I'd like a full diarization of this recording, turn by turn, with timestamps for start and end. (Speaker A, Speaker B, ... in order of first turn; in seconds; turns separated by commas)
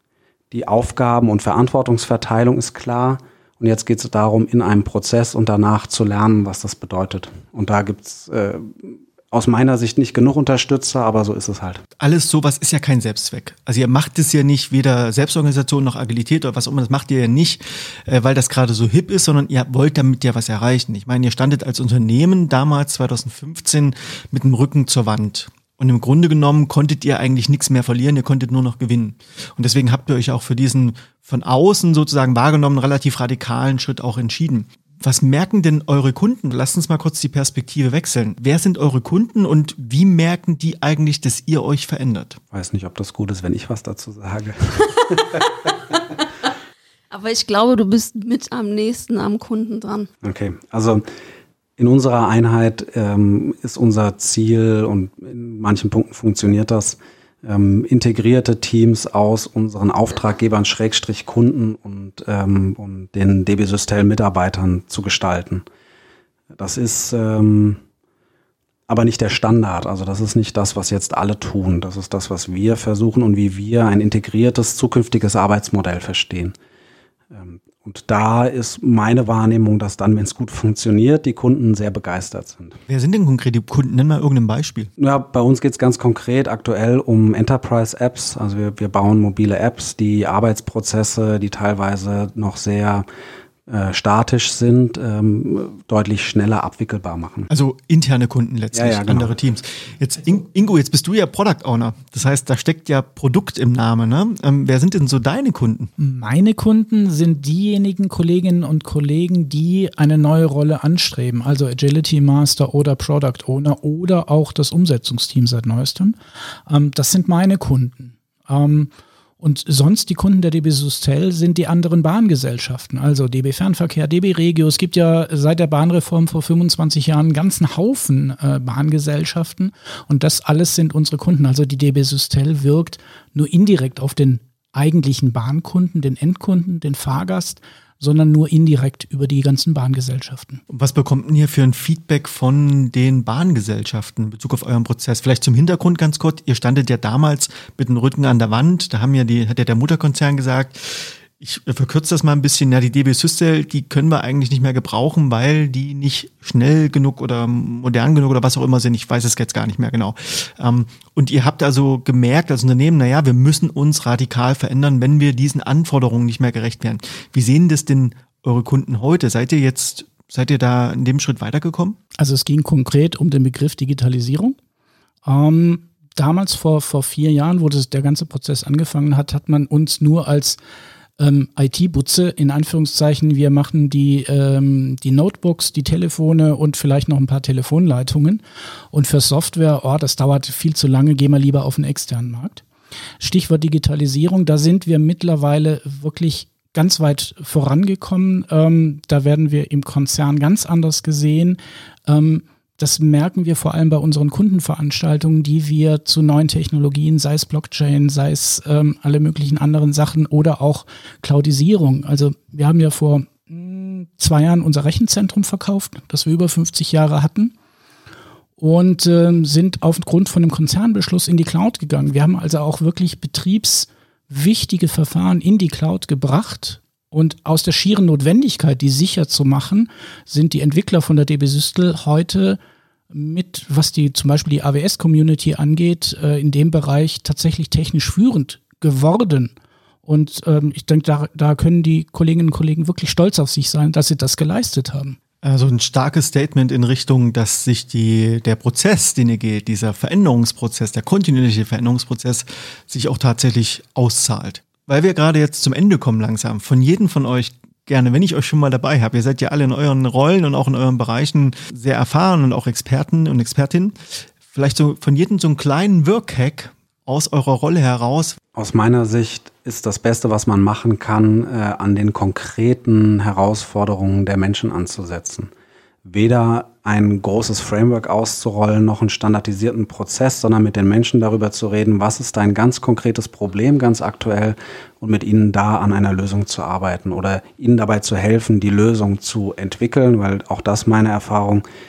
Speaker A: 0.5-11.8, Speaker B: 12.0-42.4, Speaker A: 42.5-46.0, Speaker C: 47.1-50.1, Speaker A: 50.2-51.0, Speaker A: 51.8-65.6, Speaker A: 66.5-67.8, Speaker A: 68.9-76.5, Speaker A: 77.3-82.8, Speaker B: 82.9-84.9, Speaker A: 85.0-93.1, Speaker A: 93.7-97.5, Speaker B: 97.5-105.9, Speaker A: 98.7-99.3, Speaker D: 106.0-116.2, Speaker D: 116.7-140.6, Speaker B: 140.7-172.0, Speaker D: 172.2-174.6, Speaker D: 175.2-180.6, Speaker D: 181.2-188.4, Speaker D: 188.9-192.6, Speaker D: 193.2-217.5, Speaker D: 218.6-232.6, Speaker D: 233.1-239.5, Speaker D: 240.1-245.2, Speaker B: 245.4-268.4, Speaker A: 268.6-275.5, Speaker A: 276.1-291.6